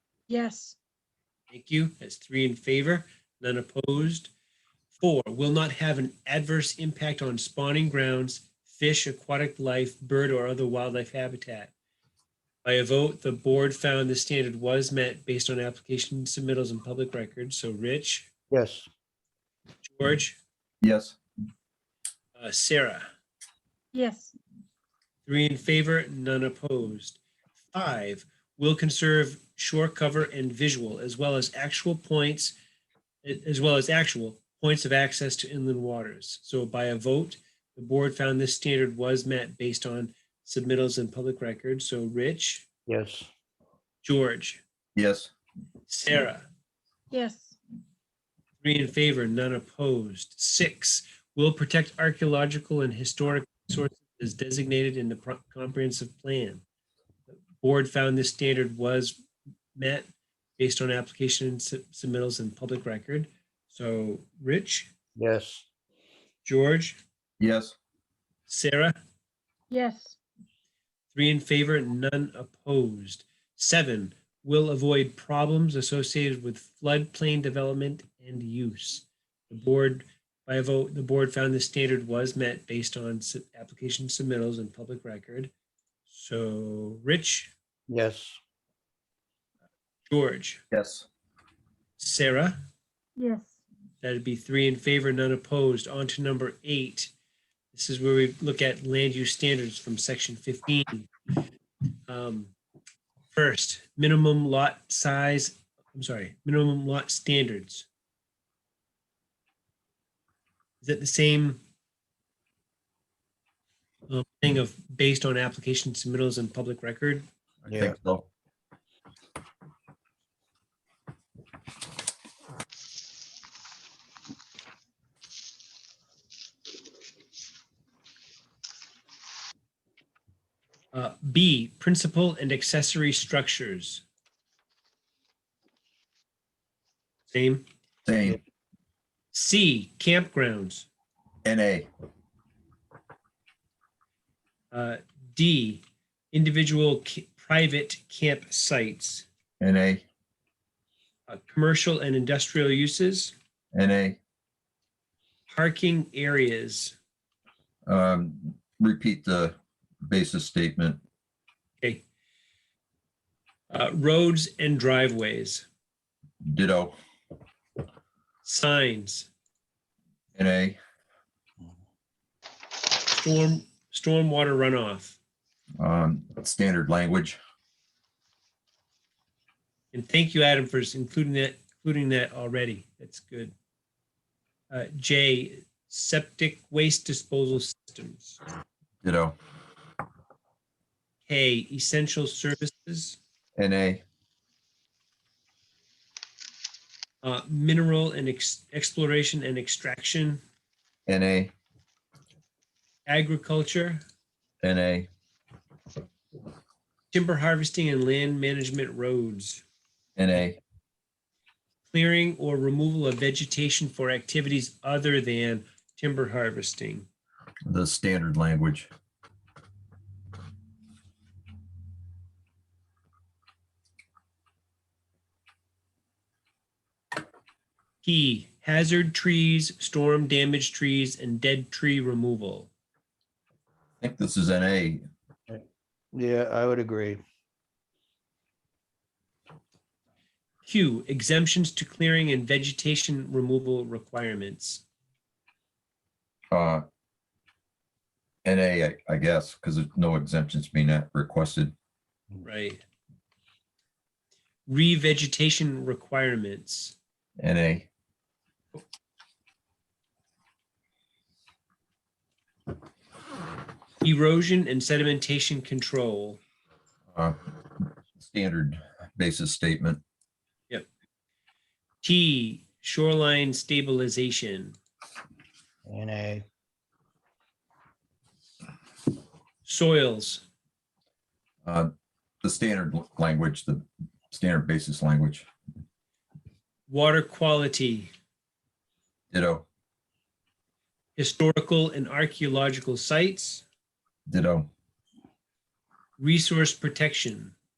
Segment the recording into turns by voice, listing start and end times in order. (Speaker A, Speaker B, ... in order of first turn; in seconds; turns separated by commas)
Speaker A: 0.3-0.8, Speaker B: 1.5-4.3, Speaker B: 4.9-11.7, Speaker B: 12.7-18.3, Speaker C: 18.5-18.9, Speaker B: 19.8-20.4, Speaker D: 20.8-21.2, Speaker B: 22.4-23.1, Speaker A: 23.9-24.3, Speaker B: 25.2-27.2, Speaker B: 27.7-32.6, Speaker B: 33.2-42.7, Speaker C: 42.9-43.3, Speaker B: 44.0-44.6, Speaker D: 45.0-45.3, Speaker B: 45.9-46.5, Speaker A: 47.1-47.5, Speaker B: 48.6-56.6, Speaker B: 57.3-59.2, Speaker B: 59.8-60.1, Speaker B: 60.6-64.9, Speaker C: 65.2-65.7, Speaker B: 66.4-67.0, Speaker D: 67.4-67.8, Speaker B: 68.5-69.0, Speaker A: 69.7-70.2, Speaker B: 71.1-85.5, Speaker B: 86.1-87.5, Speaker C: 87.9-88.4, Speaker B: 90.1-90.6, Speaker D: 90.7-91.1, Speaker B: 92.0-92.6, Speaker A: 93.2-93.5, Speaker B: 94.0-97.1, Speaker B: 97.7-101.1, Speaker B: 102.1-102.5, Speaker B: 103.3-107.9, Speaker B: 110.8-111.6, Speaker B: 114.1-117.2, Speaker C: 117.7-118.0, Speaker D: 117.7-118.3, Speaker B: 130.9-134.0, Speaker B: 137.3-137.6, Speaker D: 138.1-138.4, Speaker B: 139.3-140.9, Speaker D: 141.4-141.9, Speaker B: 144.7-149.3, Speaker D: 149.6-150.1, Speaker B: 151.3-153.3, Speaker D: 153.7-154.2, Speaker B: 155.5-156.9, Speaker D: 157.9-161.0, Speaker B: 163.7-165.7, Speaker D: 166.4-167.0, Speaker B: 168.4-169.3, Speaker D: 170.3-170.8, Speaker B: 173.1-175.2, Speaker D: 175.8-177.4, Speaker B: 179.9-183.5, Speaker B: 184.7-188.4, Speaker D: 189.0-189.4, Speaker B: 191.3-193.2, Speaker D: 193.6-194.0, Speaker B: 197.2-200.4, Speaker D: 201.1-201.5, Speaker B: 203.1-204.0, Speaker D: 204.6-205.1, Speaker B: 207.1-209.6, Speaker D: 210.2-210.6, Speaker B: 211.9-217.1, Speaker D: 217.7-218.9, Speaker B: 228.0-232.7, Speaker D: 234.0-235.1, Speaker C: 235.5-237.2, Speaker B: 240.7-244.8, Speaker D: 246.5-246.8, Speaker D: 248.4-251.7, Speaker B: 252.4-252.8, Speaker B: 254.7-256.9, Speaker D: 257.4-257.9, Speaker B: 264.0-266.4, Speaker D: 267.1-267.4, Speaker D: 268.2-270.0, Speaker B: 272.0-274.8, Speaker C: 275.9-276.4, Speaker B: 279.6-280.4, Speaker D: 281.6-281.9, Speaker D: 282.4-285.5, Speaker B: 286.9-288.1, Speaker D: 289.3-289.6, Speaker B: 291.2-293.6, Speaker D: 294.3-294.7, Speaker B: 296.2-297.5